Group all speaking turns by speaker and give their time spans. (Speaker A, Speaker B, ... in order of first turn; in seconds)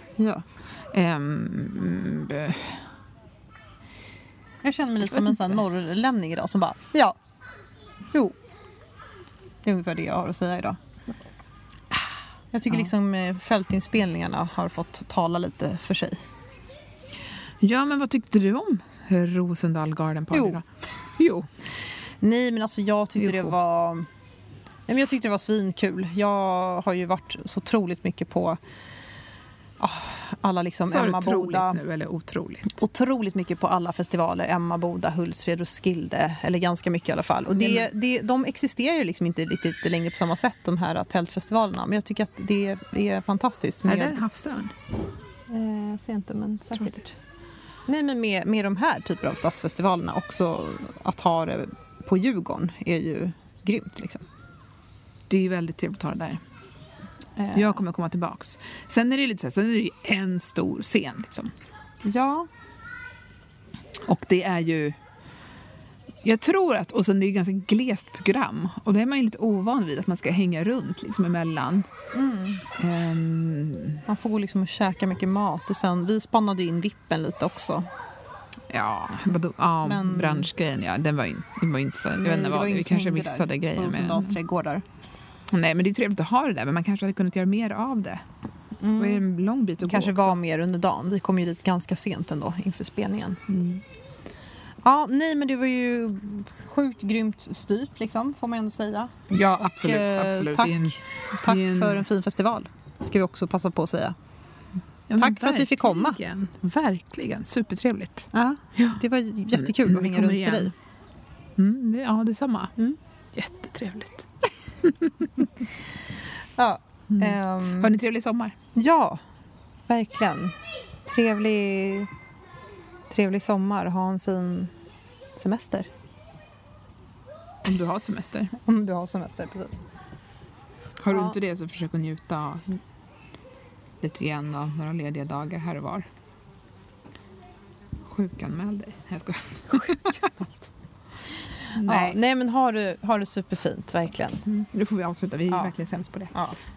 Speaker A: 0.2-0.4, 4.6-7.2, 9.6-10.8, 12.5-16.2, 20.3-20.6, 22.2-24.1, 24.9-28.6, 29.8-31.8, 32.7-44.2, 45.5-47.1, 47.9-54.2, 57.4-57.8, 62.0-62.5, 72.1-72.6, 74.1-77.9, 79.8-80.5, 82.2-84.8, 88.8-89.2, 89.8-93.4, 94.8-99.1, 99.8-104.1, 105.2-106.2, 108.3-110.7, 116.6-117.9, 118.7-119.2, 119.9-120.5, 121.0-122.1, 123.1-124.7, 125.3-125.9, 128.6-129.8, 131.1-131.3, 140.1-140.7, 141.8-144.4
Speaker B: 0.9-2.8, 5.0-5.6, 17.6-20.6, 21.2-21.5, 23.2-23.5, 30.8-32.8, 37.5-37.9, 43.8-44.7, 55.3-56.4, 57.5-61.5, 64.0-65.0, 66.2-71.8, 72.8-74.0, 78.7-84.4, 85.5-88.2, 89.0-90.4, 93.5-93.8, 99.3-102.0, 105.1-110.7, 111.6-112.7, 113.3-114.3, 114.8-115.5, 117.1-118.5, 127.6-128.5, 131.0-132.8, 134.0-136.1, 138.0-140.2, 141.7-142.2, 144.4-146.3